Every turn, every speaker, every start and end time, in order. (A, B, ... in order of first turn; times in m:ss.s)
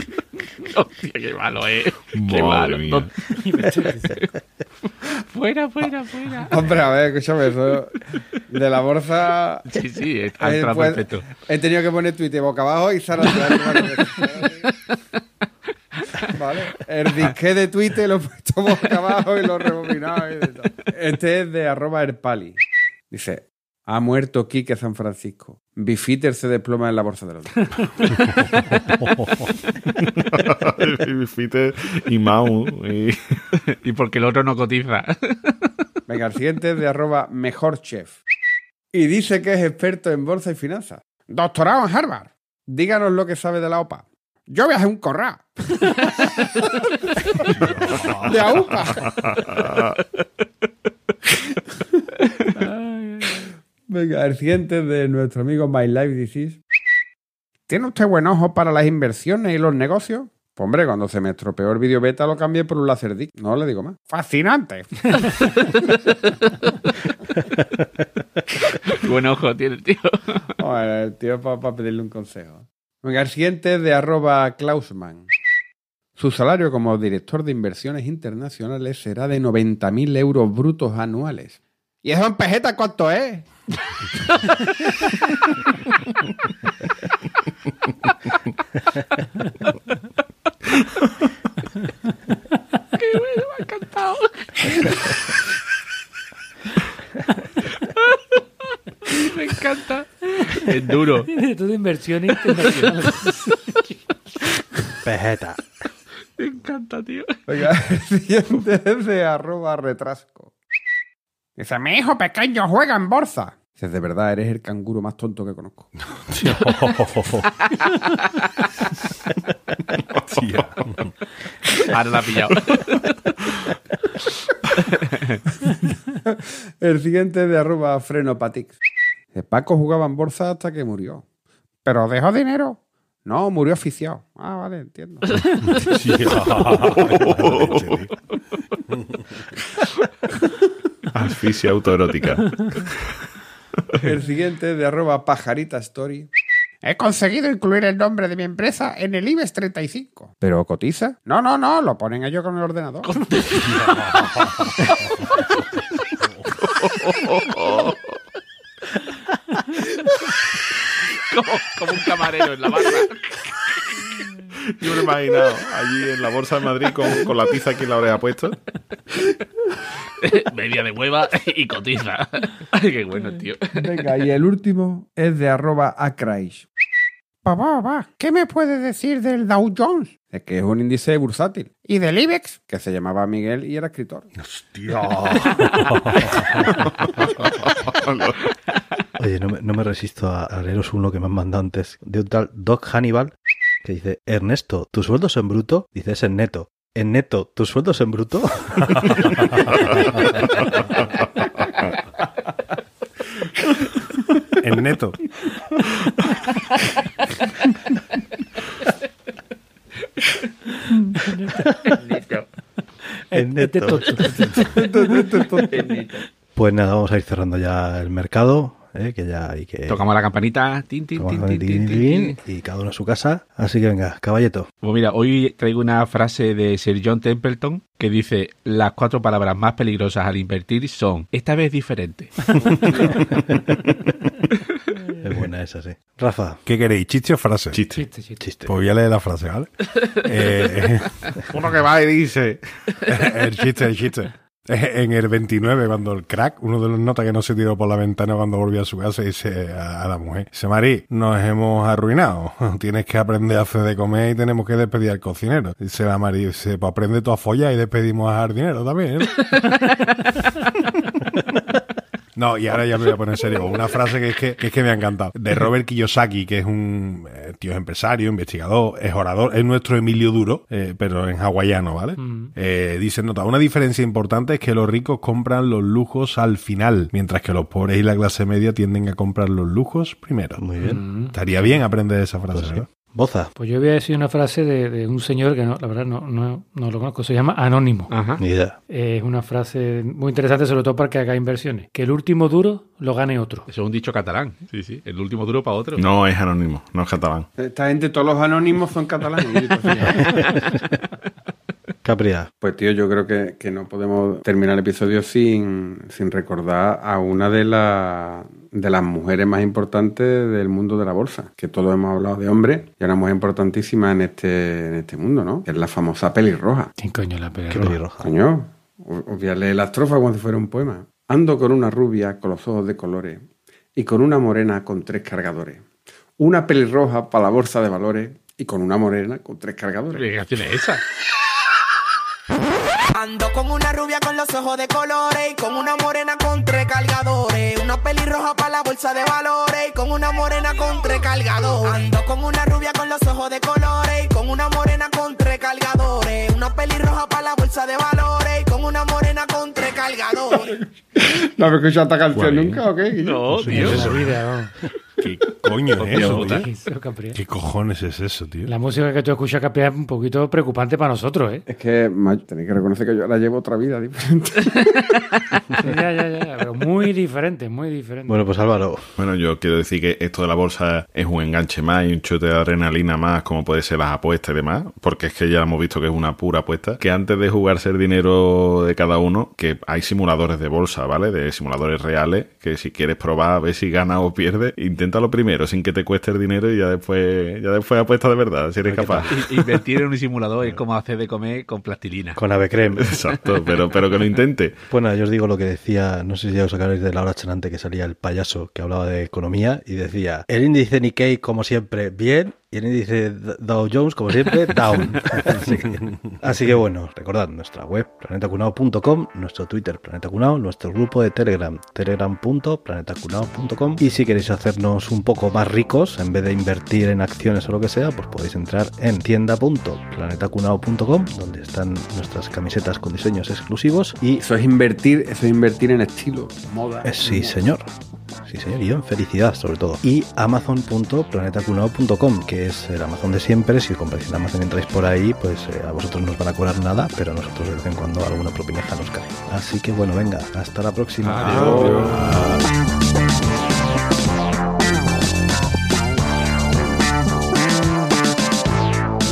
0:00.6-0:04.3 A
0:02.1-0:03.1 B
0:03.4-0:04.2 C
0:05.1-0:06.5 A
0:06.5-0:08.0 D
0:08.5-0:09.7 D
0:09.7-0:11.3 A
0:10.4-0:14.7 D
0:13.3-0:13.7 A
0:16.2-0:22.6 D
0:23.1-0:27.7 D
0:29.9-0:33.4 B
0:33.8-0:35.7 A
0:36.1-0:38.2 D
0:38.9-0:46.8 D
0:47.5-0:49.1 E
0:47.6-0:49.4 D
0:49.5-0:49.9 B
0:53.9-0:56.6 D
0:57.7-1:04.9 D
1:08.6-1:10.5 A
1:10.6-1:15.3 D
1:16.2-1:23.5 D
1:33.0-1:35.2 A
1:37.8-1:38.2 A
1:39.0-1:41.3 A
1:41.3-1:43.6 C
1:42.4-1:43.6 A
1:45.0-1:45.6 F
1:46.4-1:47.4 A
1:47.5-1:50.5 D
1:51.6-1:55.9 D
1:56.3-1:57.5 E
1:59.9-2:00.9 B
2:00.3-2:01.1 E
2:01.9-2:02.6 A
2:02.7-2:03.0 B
2:04.9-2:05.4 A
2:06.3-2:08.8 D
2:09.3-2:11.2 D
2:11.8-2:15.3 D
2:15.3-2:17.0 A
2:15.8-2:17.9 E
2:17.0-2:18.0 B
2:21.1-2:23.0 B
2:24.0-2:26.3 D
2:26.8-2:33.1 D
2:33.0-2:34.3 A
2:33.6-2:34.7 E
2:34.8-2:35.4 A
2:36.6-2:37.9 B
2:41.1-2:44.2 A
2:44.7-2:48.6 B
2:50.2-2:54.1 A
2:53.8-2:56.7 D
2:57.4-3:04.3 D
3:04.4-3:06.7 E
3:07.0-3:08.4 B
3:09.2-3:13.3 F
3:13.8-3:19.3 F
3:24.6-3:25.2 E
3:31.2-3:31.7 C
3:32.0-3:32.4 A
3:33.3-3:34.7 C
3:33.3-3:34.6 F
3:34.4-3:36.1 D
3:36.6-3:40.0 F
3:39.9-3:42.4 A
3:41.2-3:44.7 F
3:44.8-3:52.5 A
3:52.6-3:53.2 D
3:55.2-3:56.6 F
3:56.6-3:57.8 E
3:57.7-3:58.0 B
3:57.9-3:58.5 C
3:58.4-3:58.7 F
3:58.6-3:59.7 E
4:00.2-4:01.2 E
4:01.5-4:02.6 B
4:03.1-4:19.6 E
4:22.4-4:40.7 E
4:32.2-4:32.5 C
4:40.6-4:41.0 F
4:40.8-4:41.4 C
4:41.3-4:42.9 E
4:42.5-4:43.5 F
4:43.6-4:48.1 C
4:48.1-4:48.4 A
4:48.4-4:48.8 F
4:48.9-4:53.7 C
4:53.7-4:56.0 A
4:56.0-4:57.5 B
4:57.6-5:00.6 D
5:00.0-5:00.9 F
5:02.0-5:02.5 F
5:02.6-5:16.9 D
5:17.0-5:18.0 C
5:17.7-5:18.3 F
5:18.2-5:23.4 D
5:24.0-5:25.8 D
5:26.4-5:30.3 D
5:30.1-5:31.0 A
5:33.1-5:50.8 G
5:50.6-5:54.1 D
5:52.3-5:52.8 E
5:53.2-5:54.2 A
5:53.5-5:54.4 E
5:53.6-5:54.7 C
5:55.2-5:56.7 E
5:56.0-5:56.6 A
5:56.2-5:56.4 D
5:56.2-5:57.4 C
5:57.3-5:58.7 E
5:58.6-6:01.6 C
6:01.7-6:05.3 D
6:05.8-6:08.4 C
6:08.3-6:09.1 F
6:09.2-6:29.3 B
6:28.8-6:29.5 F
6:29.3-6:32.4 A
6:32.4-6:33.2 F
6:33.0-6:34.8 B
6:34.9-7:04.4 F
7:04.4-7:07.6 D
7:07.0-7:07.9 F
7:08.4-7:22.6 F
7:21.5-7:22.0 D